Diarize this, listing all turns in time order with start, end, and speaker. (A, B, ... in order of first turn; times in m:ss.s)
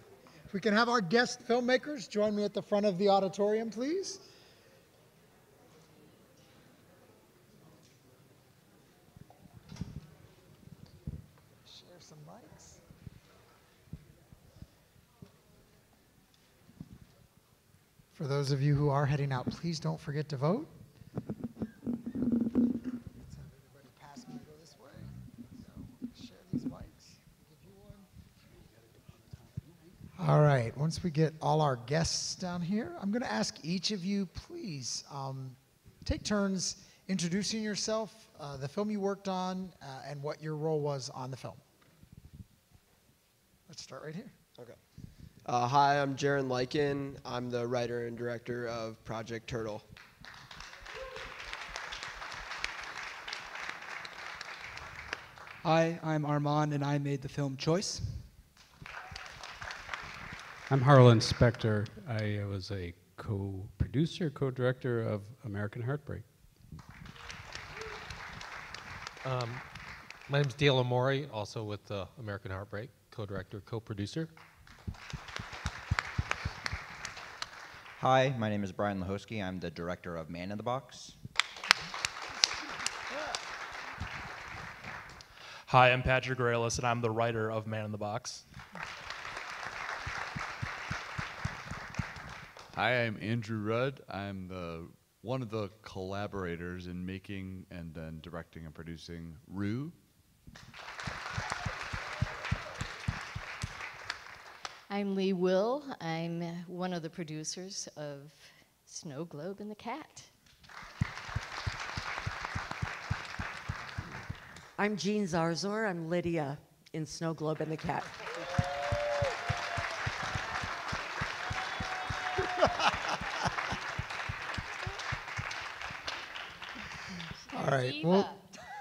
0:00.5-0:04.2 A
0:11.6-0:12.8 A
0:18.1-0:20.7 A
0:23.2-0:28.1 A
0:28.6-0:29.7 B
0:30.1-0:41.6 A
0:43.7-0:44.3 A
0:45.4-0:49.8 C
0:55.6-0:58.3 D
1:00.7-1:06.3 B
1:09.2-1:09.6 E
1:10.3-1:14.3 E
1:18.0-1:21.2 F
1:25.7-1:28.4 G
1:32.7-1:40.0 H
1:44.9-1:50.3 I
1:54.8-1:58.2 J
2:07.4-2:08.4 I
2:07.5-2:08.4 A